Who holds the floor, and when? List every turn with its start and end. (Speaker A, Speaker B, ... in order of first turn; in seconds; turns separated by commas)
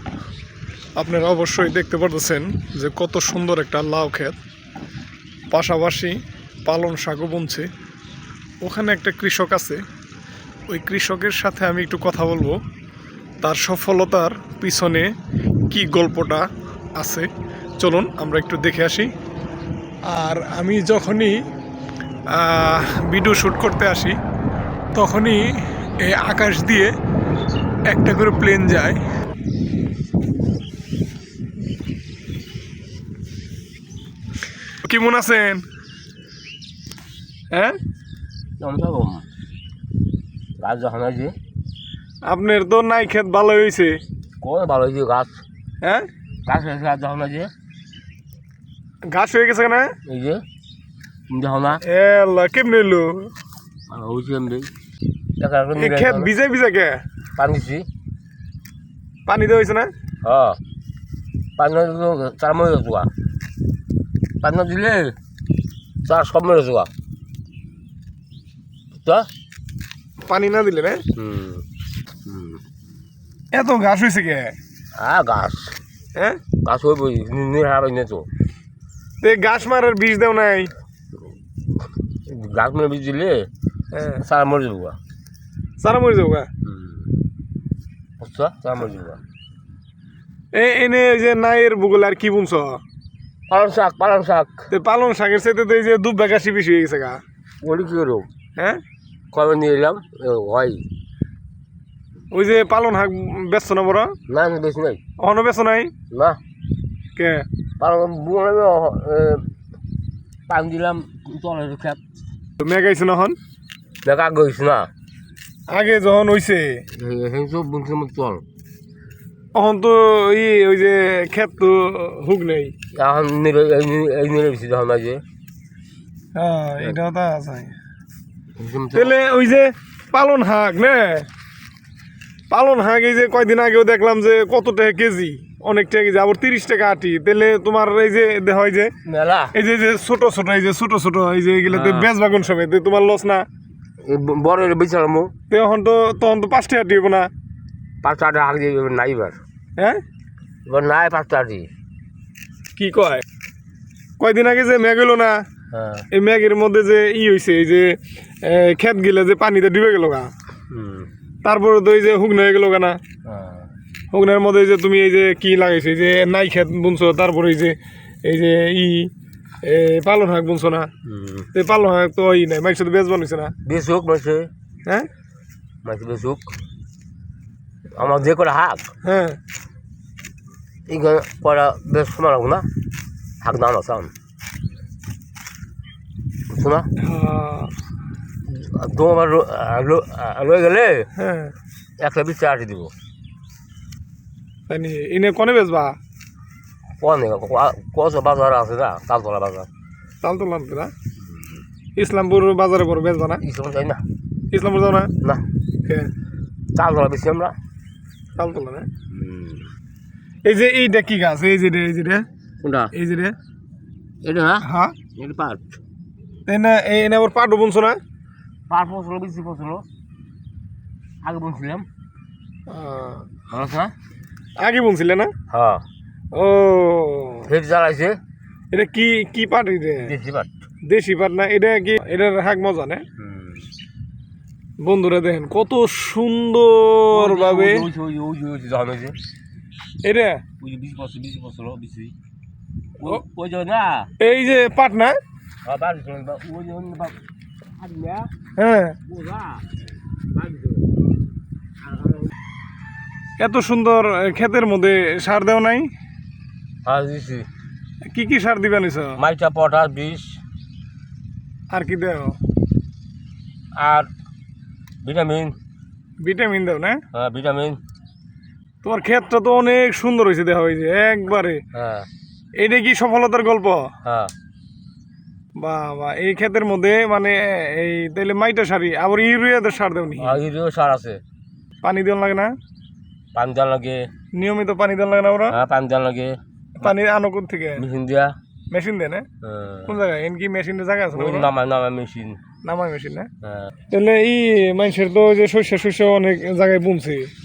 Speaker A: 1.0-4.4, Speaker A: 5.5-7.7, Speaker A: 8.6-9.8, Speaker A: 10.7-12.6, Speaker A: 13.4-15.1, Speaker A: 15.7-17.3, Speaker A: 17.8-19.1, Speaker A: 20.1-21.4, Speaker A: 22.3-24.2, Speaker A: 24.9-26.9, Speaker A: 27.9-29.0, Speaker A: 34.8-35.6, Speaker A: 37.5-37.8, Speaker B: 38.6-39.3, Speaker B: 40.6-41.4, Speaker A: 42.2-44.0, Speaker B: 44.4-45.4, Speaker B: 46.5-47.5, Speaker A: 49.1-50.0, Speaker B: 50.1-50.4, Speaker B: 51.3-51.8, Speaker A: 51.8-53.3, Speaker B: 53.9-54.7, Speaker B: 55.4-56.3, Speaker A: 55.8-57.0, Speaker B: 57.4-57.9, Speaker A: 59.3-59.9, Speaker B: 60.2-60.6, Speaker B: 61.6-63.1, Speaker B: 64.4-65.2, Speaker B: 66.0-66.9, Speaker A: 70.3-71.0, Speaker B: 71.2-71.7, Speaker B: 72.3-72.6, Speaker A: 73.5-74.5, Speaker B: 75.0-75.8, Speaker B: 76.6-78.3, Speaker A: 79.2-80.7, Speaker B: 82.3-83.5, Speaker A: 83.9-84.2, Speaker B: 84.2-85.0, Speaker A: 85.8-86.5, Speaker B: 86.6-87.1, Speaker B: 88.2-89.2, Speaker A: 90.5-92.8, Speaker B: 93.5-94.7, Speaker A: 94.7-97.2, Speaker B: 97.6-98.3, Speaker A: 98.6-98.8, Speaker B: 99.3-100.8, Speaker A: 102.3-104.2, Speaker B: 104.3-105.0, Speaker A: 105.2-105.9, Speaker B: 106.1-106.4, Speaker A: 107.2-107.5, Speaker B: 107.8-109.5, Speaker B: 110.5-112.0, Speaker A: 112.6-113.4, Speaker B: 114.0-114.9, Speaker A: 115.7-116.8, Speaker B: 116.9-118.4, Speaker A: 119.5-122.8, Speaker B: 122.9-125.2, Speaker A: 126.3-127.7, Speaker B: 128.6-129.2, Speaker A: 128.9-131.3, Speaker A: 132.5-138.9, Speaker B: 139.1-139.6, Speaker A: 139.5-143.5, Speaker B: 141.7-142.1, Speaker B: 144.0-145.3, Speaker A: 145.5-147.3, Speaker B: 148.0-149.4, Speaker B: 150.7-151.7, Speaker A: 152.8-153.2, Speaker A: 154.2-155.4, Speaker B: 155.7-156.1, Speaker A: 156.1-160.3, Speaker B: 160.7-161.1, Speaker A: 161.4-163.0, Speaker B: 163.2-163.7, Speaker A: 164.1-169.1, Speaker A: 169.7-170.9, Speaker B: 171.0-171.5, Speaker A: 171.5-173.5, Speaker B: 173.6-174.5, Speaker B: 175.8-176.4, Speaker B: 178.0-178.9, Speaker A: 179.0-179.4, Speaker B: 180.9-182.7, Speaker B: 183.4-184.1, Speaker B: 186.5-186.9, Speaker A: 187.0-187.7, Speaker B: 188.5-191.1, Speaker A: 191.2-191.5, Speaker B: 192.0-192.9, Speaker A: 194.7-196.0, Speaker B: 197.0-199.7, Speaker A: 200.2-200.9, Speaker A: 202.0-203.4, Speaker B: 203.4-204.0, Speaker A: 204.5-205.1, Speaker A: 205.8-206.1, Speaker B: 206.8-207.6, Speaker A: 208.4-208.9, Speaker B: 209.1-209.7, Speaker A: 210.4-212.3, Speaker B: 212.6-212.9, Speaker A: 212.9-213.4, Speaker B: 214.2-214.7, Speaker A: 214.6-214.9, Speaker B: 215.2-215.8, Speaker A: 216.5-218.0, Speaker B: 218.7-219.8, Speaker B: 221.2-221.9, Speaker A: 222.7-223.3, Speaker B: 223.5-223.9, Speaker A: 224.6-225.3, Speaker B: 225.5-225.8, Speaker A: 226.3-227.5, Speaker B: 227.5-228.2, Speaker A: 228.7-230.1, Speaker B: 230.0-230.6, Speaker A: 230.9-233.0, Speaker B: 233.2-233.6, Speaker A: 234.8-237.9, Speaker B: 237.1-239.2, Speaker A: 240.0-240.4, Speaker B: 240.6-242.1, Speaker B: 243.0-244.1, Speaker A: 244.2-245.2, Speaker B: 245.7-247.2, Speaker B: 247.8-248.3, Speaker A: 248.6-249.0, Speaker B: 249.1-249.7, Speaker B: 250.3-250.9, Speaker B: 251.8-252.3, Speaker A: 253.4-255.9, Speaker B: 256.9-257.5, Speaker A: 258.1-259.2, Speaker B: 259.2-260.4, Speaker A: 261.7-262.4, Speaker B: 263.8-264.1, Speaker B: 265.0-265.6, Speaker A: 266.2-267.0, Speaker B: 267.1-267.8, Speaker A: 268.8-271.6, Speaker B: 271.7-272.1, Speaker A: 272.6-273.9, Speaker B: 274.0-274.3, Speaker A: 275.6-280.4, Speaker B: 280.2-281.2, Speaker A: 281.8-282.5, Speaker B: 283.4-284.1, Speaker A: 284.4-285.6, Speaker B: 285.5-286.9, Speaker A: 286.8-287.8, Speaker B: 287.8-288.4, Speaker A: 288.7-289.3, Speaker B: 289.4-289.9, Speaker A: 289.9-291.5, Speaker B: 291.2-292.4, Speaker A: 292.6-293.3, Speaker B: 293.4-293.7, Speaker A: 293.9-297.3